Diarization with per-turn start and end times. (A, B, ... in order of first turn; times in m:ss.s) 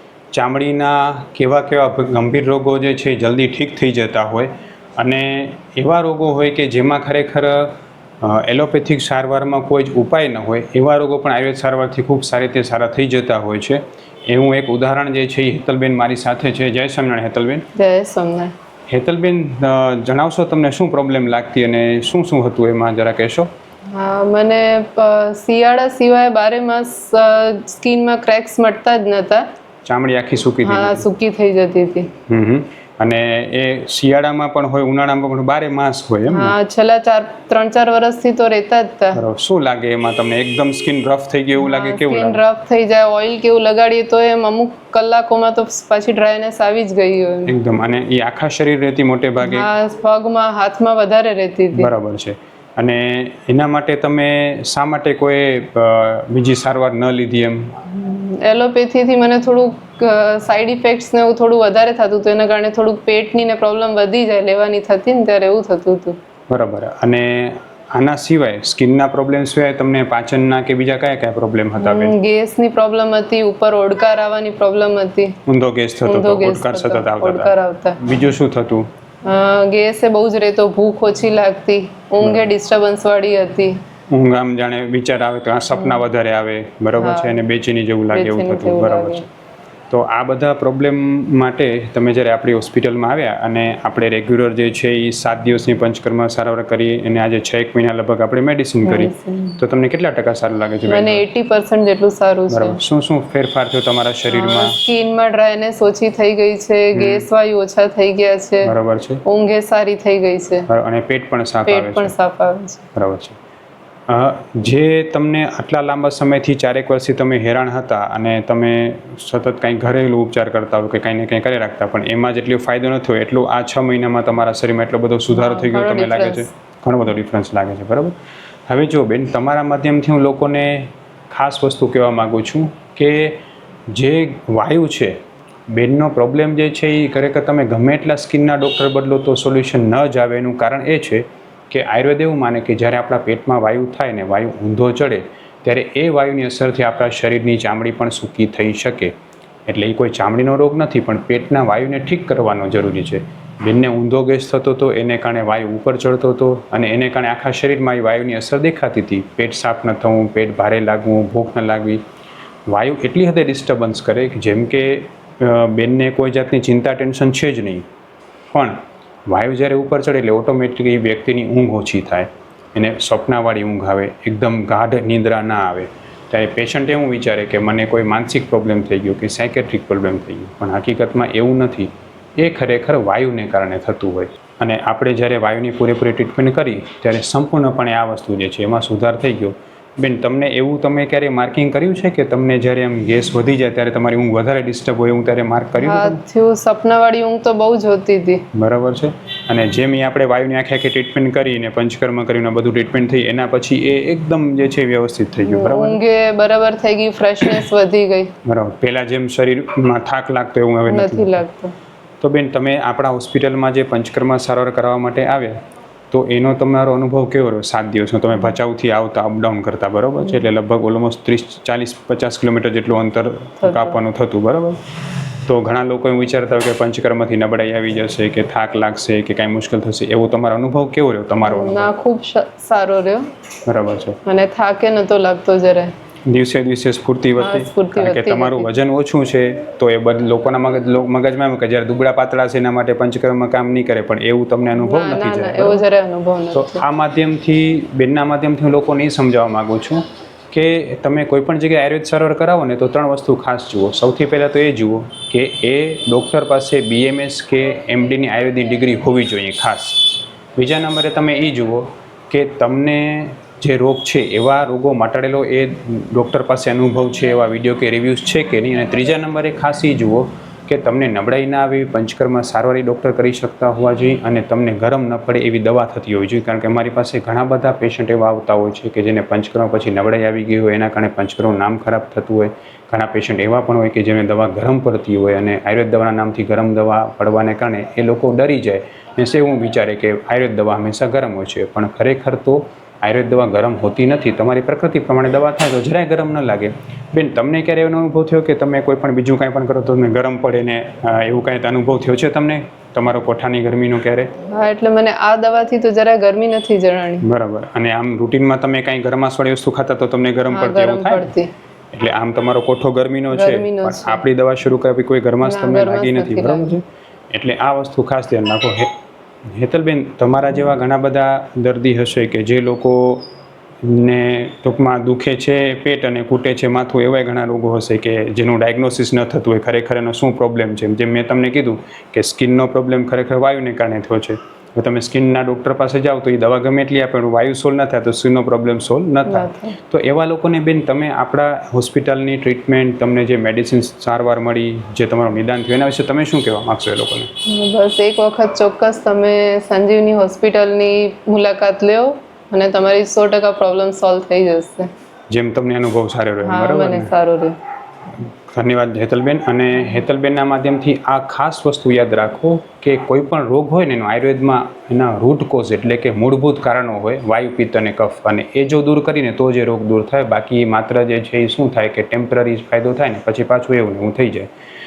0:00.3-0:17.7 A
0:17.8-0:18.5 B
0:18.9-0:23.5 A
0:23.9-0:29.4 B
0:29.8-0:31.1 A
0:30.6-0:32.1 B
0:32.3-0:36.6 A
0:36.3-0:39.2 B
0:39.1-0:42.4 A
0:41.6-0:47.5 B
0:47.5-0:49.7 A
0:49.4-0:51.9 B
0:51.8-0:57.8 A
0:57.9-1:06.2 B
1:06.5-1:12.2 A
1:11.8-1:15.4 B
1:15.5-1:18.9 A
1:16.0-1:18.0 B
1:19.2-1:23.8 B
1:24.1-1:29.3 A
1:25.8-1:26.0 B
1:27.0-1:27.4 B
1:28.1-1:29.2 B
1:29.9-1:41.2 A
1:38.8-1:39.6 B
1:40.9-1:42.8 B
1:42.5-1:44.8 A
1:44.3-1:48.7 B
1:47.0-1:47.2 A
1:48.6-1:49.2 A
1:49.2-1:50.7 B
1:50.7-1:52.1 A
1:51.7-1:52.8 B
1:53.0-1:53.4 A
1:54.1-2:08.2 A
2:05.3-2:06.5 B
2:08.7-2:13.4 A
2:13.9-2:15.2 A
2:15.7-2:29.1 A
2:29.7-2:42.0 A
2:42.7-2:47.8 A
2:48.5-3:16.2 A
3:15.8-3:18.4 B
3:18.5-3:26.0 A
3:25.4-3:28.3 B
3:28.4-3:31.4 A
3:30.9-3:31.7 B
3:32.2-3:35.6 A
3:36.1-3:44.8 A
3:43.6-3:44.0 B
3:45.5-3:51.9 A
3:51.4-3:53.3 B
3:53.6-3:54.2 A
3:54.2-3:55.9 B
3:56.3-4:05.8 A
3:57.4-3:58.7 B
4:04.8-4:06.8 B
4:06.5-5:04.3 A
5:04.5-5:07.2 B
5:07.2-5:11.3 A
5:10.5-5:11.5 B
5:11.9-5:18.9 A
5:13.3-5:14.2 B
5:15.4-5:16.7 B
5:19.5-5:23.3 A
5:23.8-5:47.3 A
5:39.3-5:39.8 B
5:47.4-5:54.9 B
5:55.3-5:57.1 A
5:56.4-5:57.6 B
5:58.5-6:14.5 A